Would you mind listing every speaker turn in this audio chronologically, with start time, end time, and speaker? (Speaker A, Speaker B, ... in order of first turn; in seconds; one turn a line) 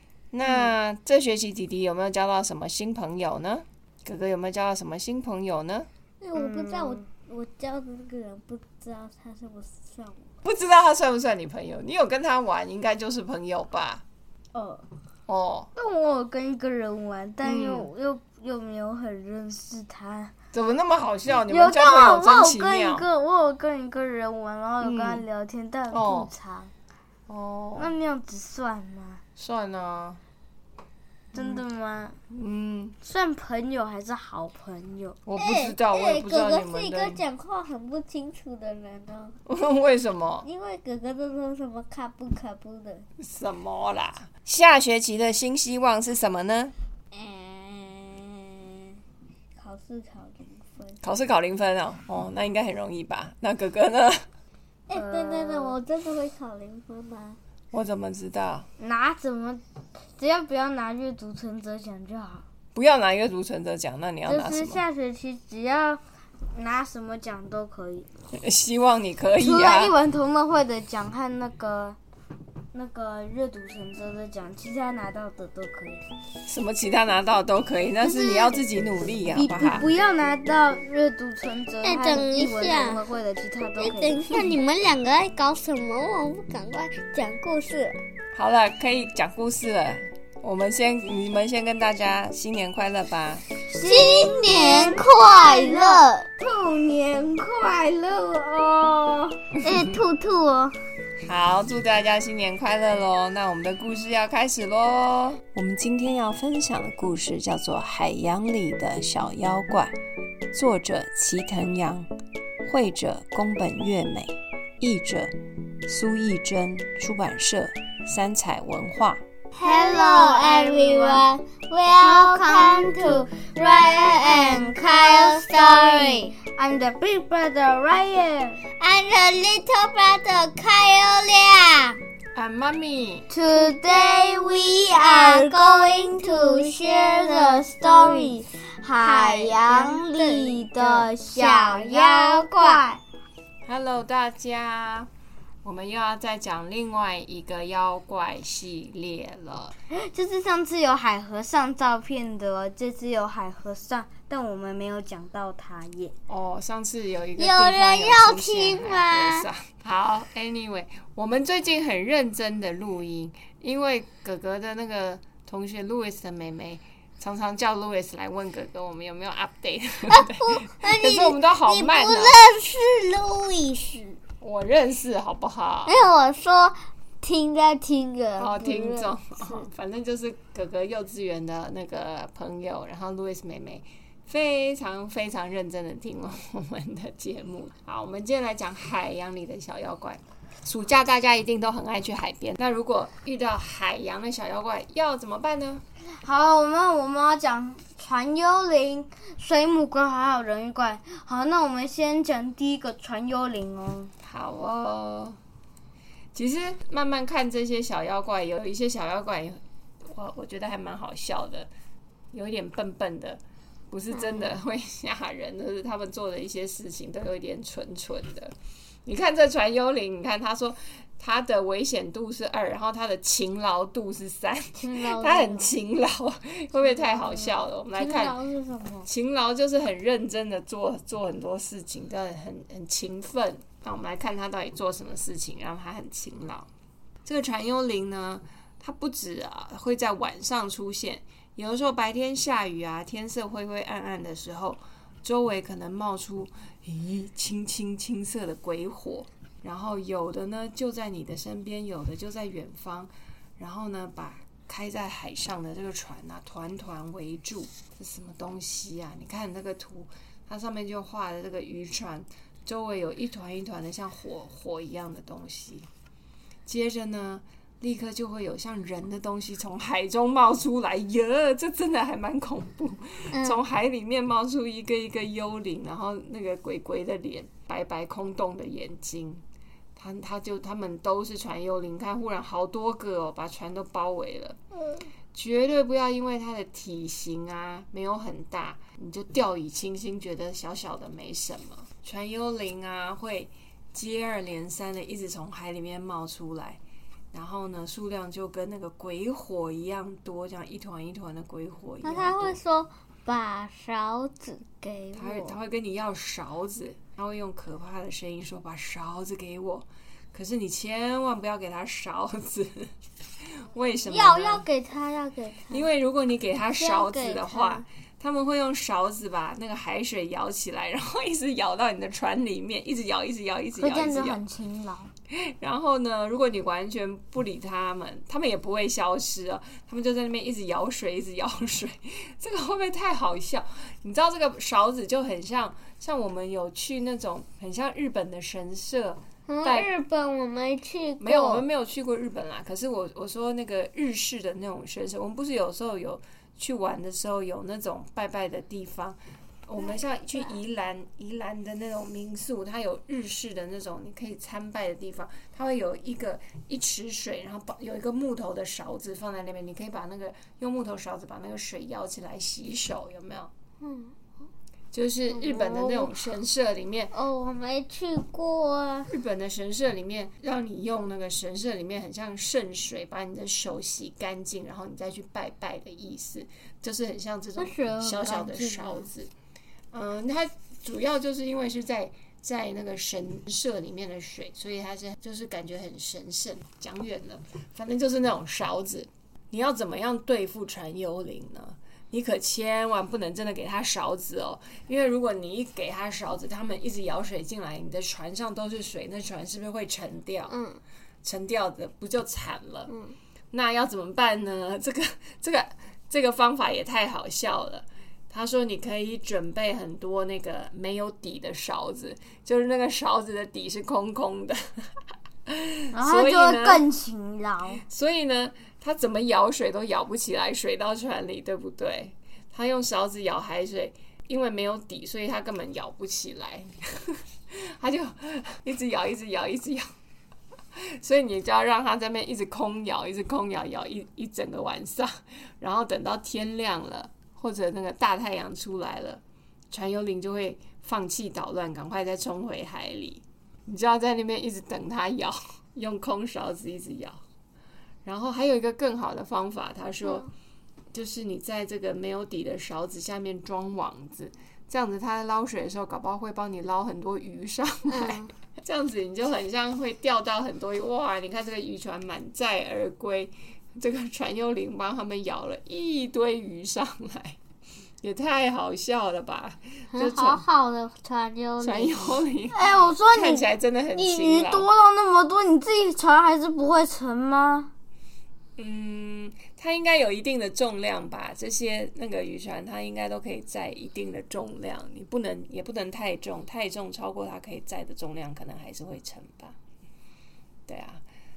Speaker A: 0.3-5.9
Speaker B: 6.2-10.3
Speaker A: 6.4-6.7
Speaker C: 6.5-7.0
Speaker A: 10.4-14.0
Speaker B: 14.5-14.8
Speaker A: 15.3-15.7
Speaker C: 15.8-20.3
Speaker A: 17.4-17.9
Speaker A: 20.5-23.1
Speaker C: 21.3-26.7
Speaker A: 24.8-25.2
Speaker A: 25.9-26.3
Speaker A: 27.3-27.9
Speaker C: 27.8-29.2
Speaker A: 29.4-30.2
Speaker C: 31.3-32.2
Speaker A: 31.3-31.6
Speaker A: 32.3-33.0
Speaker C: 33.0-35.2
Speaker A: 35.2-37.2
Speaker B: 35.4-39.4
Speaker A: 39.5-40.5
Speaker B: 40.5-43.1
Speaker A: 43.2-46.7
Speaker B: 47.1-49.0
Speaker B: 49.6-51.0
Speaker A: 51.0-54.3
Speaker B: 54.9-57.4
Speaker C: 54.9-55.8
Speaker A: 57.7-58.7
Speaker C: 58.8-59.6
Speaker C: 60.2-62.5
Speaker A: 62.8-64.8
Speaker C: 64.3-68.1
Speaker A: 68.3-70.0
Speaker C: 69.4-72.0
Speaker C: 72.7-76.0
Speaker A: 76.5-79.9
Speaker C: 78.1-78.5
Speaker C: 79.3-84.6
Speaker B: 81.8-83.0
Speaker B: 83.8-88.0
Speaker A: 88.3-93.5
Speaker C: 93.7-99.5
Speaker B: 93.8-96.3
Speaker A: 99.6-100.0
Speaker B: 99.6-100.8
Speaker A: 101.3-110.0
Speaker A: 110.5-112.1
Speaker A: 112.6-115.3
Speaker A: 115.8-119.2
Speaker C: 119.5-121.3
Speaker B: 119.6-126.3
Speaker C: 122.0-128.6
Speaker B: 128.8-132.0
Speaker A: 132.3-133.3
Speaker C: 133.3-143.0
Speaker B: 133.7-138.4
Speaker B: 139.0-142.8
Speaker A: 143.7-145.1
Speaker A: 145.6-149.8
Speaker C: 149.9-156.1
Speaker A: 156.3-172.4
Speaker B: 157.4-159.5
Speaker B: 170.1-174.2
Speaker A: 174.4-175.9
Speaker B: 175.9-179.7
Speaker A: 178.4-195.8
Speaker C: 196.2-204.1
Speaker A: 204.2-205.4
Speaker A: 206.3-211.7
Speaker A: 212.3-218.5
Speaker B: 214.1-214.5
Speaker A: 219.1-228.4
Speaker B: 224.8-225.7
Speaker B: 226.8-229.1
Speaker A: 229.1-236.7
Speaker A: 237.2-265.9
Speaker A: 266.7-279.4
Speaker B: 273.3-273.6
Speaker A: 280.0-284.6
Speaker A: 285.3-296.8
Speaker A: 297.3-302.6
Speaker B: 302.0-305.6
Speaker A: 305.1-312.9
Speaker A: 313.5-314.7
Speaker B: 314.1-315.9
Speaker A: 315.7-324.4
Speaker B: 316.8-317.9
Speaker C: 323.8-325.1
Speaker A: 325.3-339.9
Speaker B: 339.5-341.7
Speaker A: 341.2-363.5
Speaker B: 363.8-364.1
Speaker A: 364.9-367.1
Speaker B: 365.3-366.2
Speaker B: 367.1-369.1
Speaker A: 369.1-379.3
Speaker B: 377.6-379.1
Speaker A: 379.9-400.6
Speaker B: 400.5-400.8
Speaker A: 401.2-402.9
Speaker B: 402.9-403.2
Speaker A: 403.5-414.8
Speaker A: 415.5-416.8
Speaker C: 415.9-417.8
Speaker A: 417.9-429.9
Speaker A: 430.8-447.2
Speaker A: 448.1-450.3
Speaker B: 450.0-450.3
Speaker A: 450.9-467.4
Speaker B: 457.9-458.3
Speaker A: 468.0-470.4
Speaker B: 469.9-472.2
Speaker A: 471.6-474.7
Speaker C: 472.5-477.7
Speaker A: 478.6-489.6
Speaker A: 490.7-491.0